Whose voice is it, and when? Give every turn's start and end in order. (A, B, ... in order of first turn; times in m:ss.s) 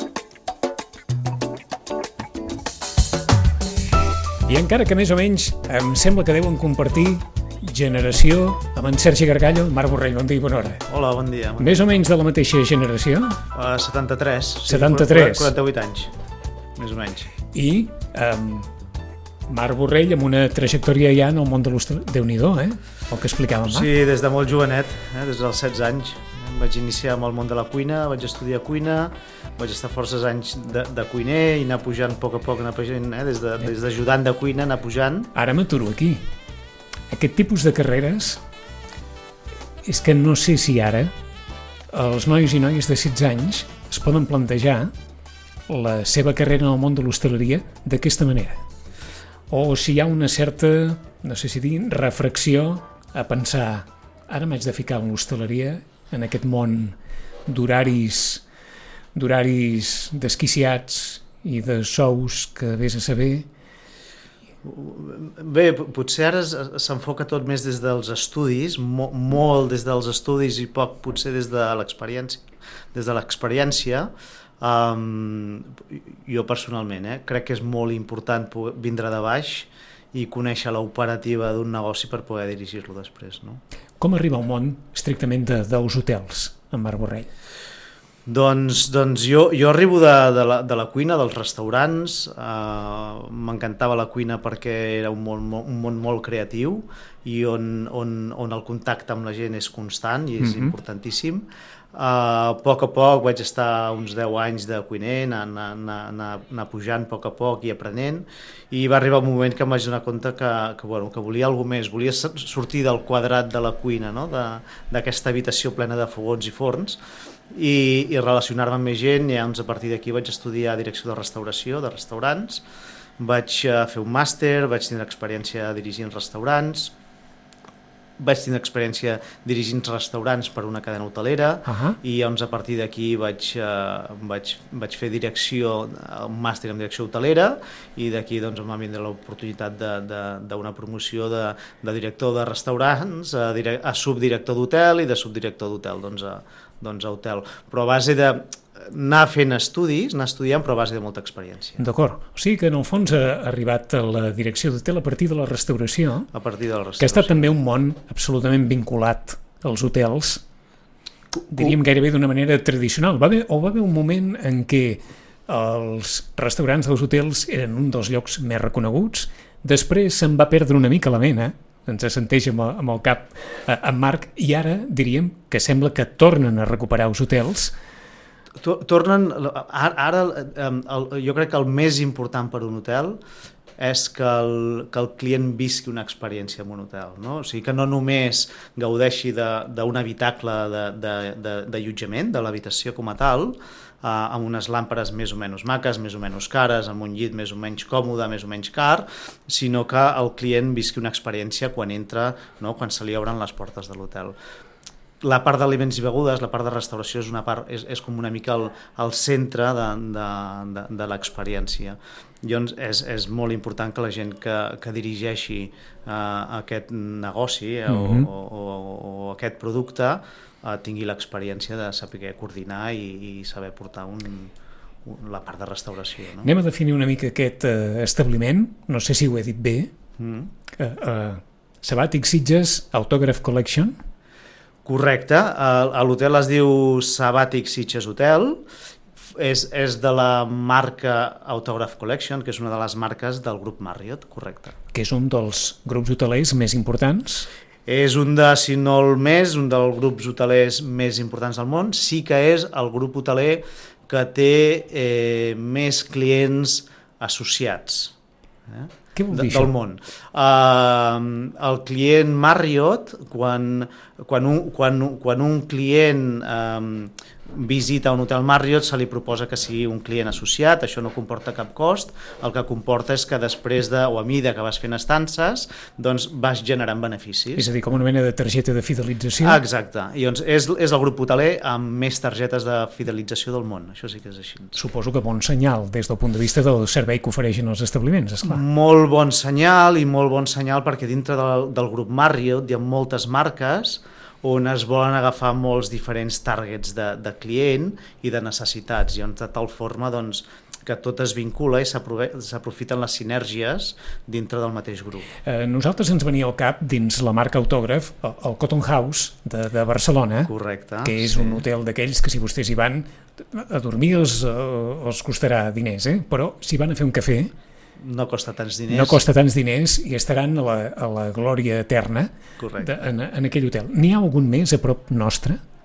0:04.4-0:10.8 A
0:10.9-0:11.8 B
0:11.6-0:13.4 A
0:13.5-0:16.1 B
0:14.6-0:15.5 A
0:16.8-0:17.3 B
0:17.5-0:18.7 A
0:19.5-0:23.9 A
0:23.6-0:35.3 B
0:35.3-0:36.2 A
0:37.1-0:38.4 A
0:39.8-0:41.1 A
0:41.9-0:44.9 A
0:45.7-0:48.6 A
0:49.5-0:58.4 A
0:59.1-1:03.5 A
1:04.6-1:12.4 B
1:12.9-1:23.6 B
1:24.0-1:27.3 A
1:28.3-2:02.6 B
1:40.4-1:40.7 A
2:03.2-2:06.9 B
2:08.2-2:31.8 B
2:11.7-2:12.0 A
2:31.8-2:36.3 A
2:36.3-2:37.5 B
2:37.0-2:40.4 A
2:41.4-2:41.7 B
2:41.5-2:57.7 A
2:58.6-3:03.2 B
3:03.8-3:24.3 B
3:25.2-3:44.5 B
3:37.9-3:38.3 A
3:45.0-3:46.5 B
3:46.4-3:49.9 A
3:50.2-3:50.5 B
3:50.7-3:53.9 A
3:54.8-3:58.6 B
3:59.4-4:04.7 B
4:04.9-4:07.5 A
4:07.9-4:18.1 B
4:18.7-4:37.7 B
4:19.1-4:19.7 A
4:37.5-4:39.6 A
4:39.4-4:44.8 B
4:44.7-4:48.6 A
4:48.4-5:05.3 B
5:05.4-5:10.5 A
5:10.5-5:11.6 B
5:11.0-5:17.5 A
5:18.0-5:19.2 B
5:18.9-5:25.6 A
5:22.6-5:22.9 B